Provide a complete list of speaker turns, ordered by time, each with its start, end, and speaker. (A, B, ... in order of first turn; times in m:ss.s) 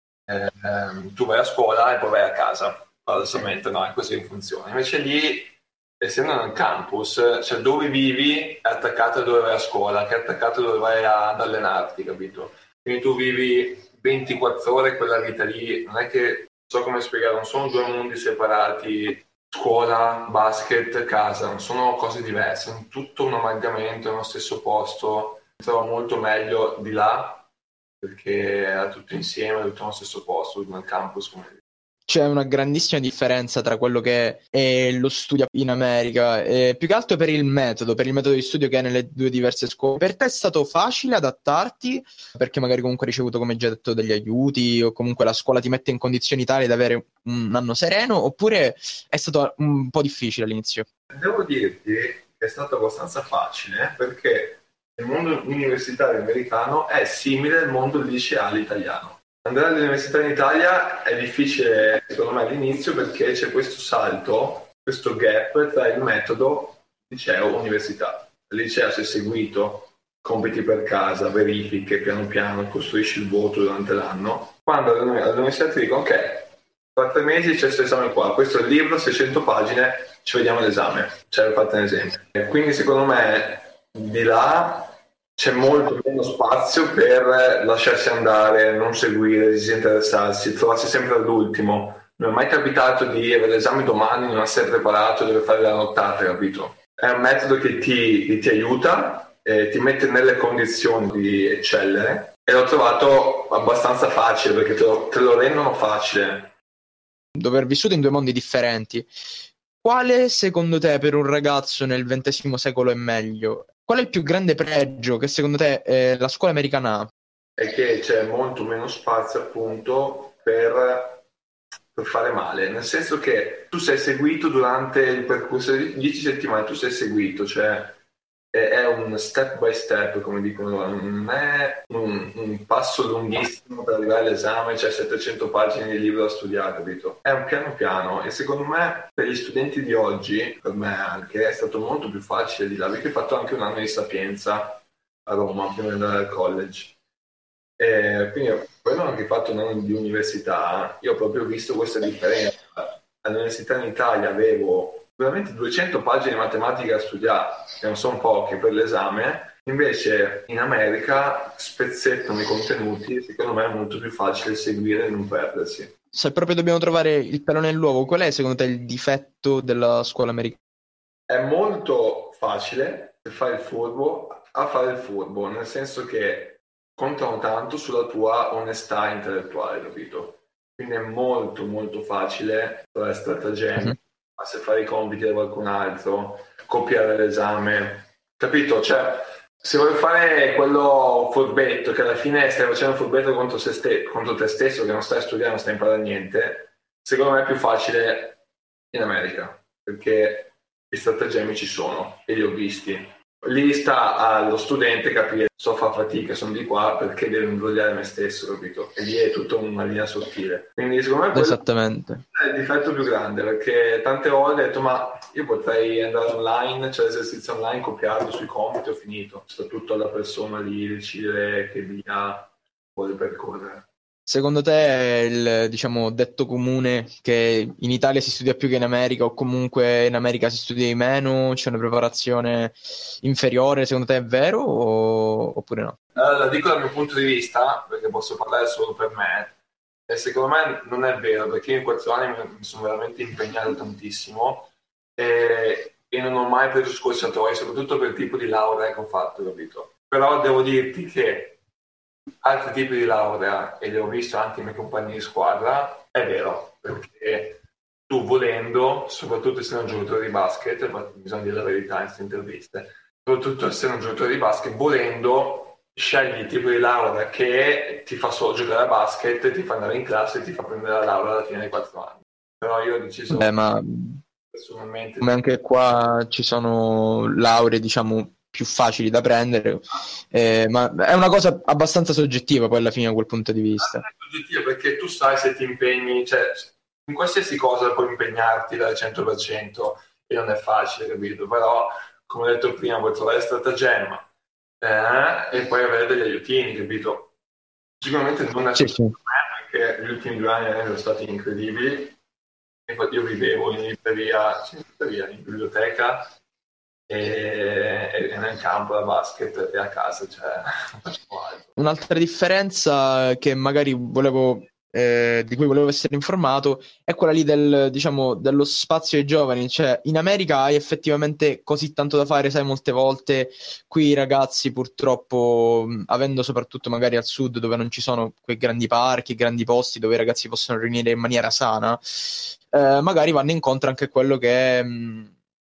0:00.3-0:27.5 A
0:28.0-0:31.6 A
0:32.1-0:50.9 B
0:51.1-1:46.5 A
1:47.4-1:49.1 B
1:49.8-1:57.1 B
1:57.6-2:01.2 A
2:01.9-2:08.0 A
2:08.5-2:27.0 A
2:27.8-2:45.9 A
2:46.1-2:50.6 B
2:51.3-3:18.4 A
3:18.9-3:31.6 A
3:31.3-3:32.2 B
3:32.3-3:43.9 A
3:44.3-3:56.0 B
3:56.2-3:59.5 A
4:00.1-4:11.6 A
4:12.4-4:33.6 A
4:33.3-4:34.2 B
4:34.5-4:35.3 A
4:35.2-4:44.0 B
4:43.8-4:54.3 A
4:54.8-4:57.3 A
4:58.0-5:02.2 A
4:58.8-4:59.2 B
5:02.9-5:06.3 A
5:07.1-5:11.7 A
5:11.8-5:35.3 B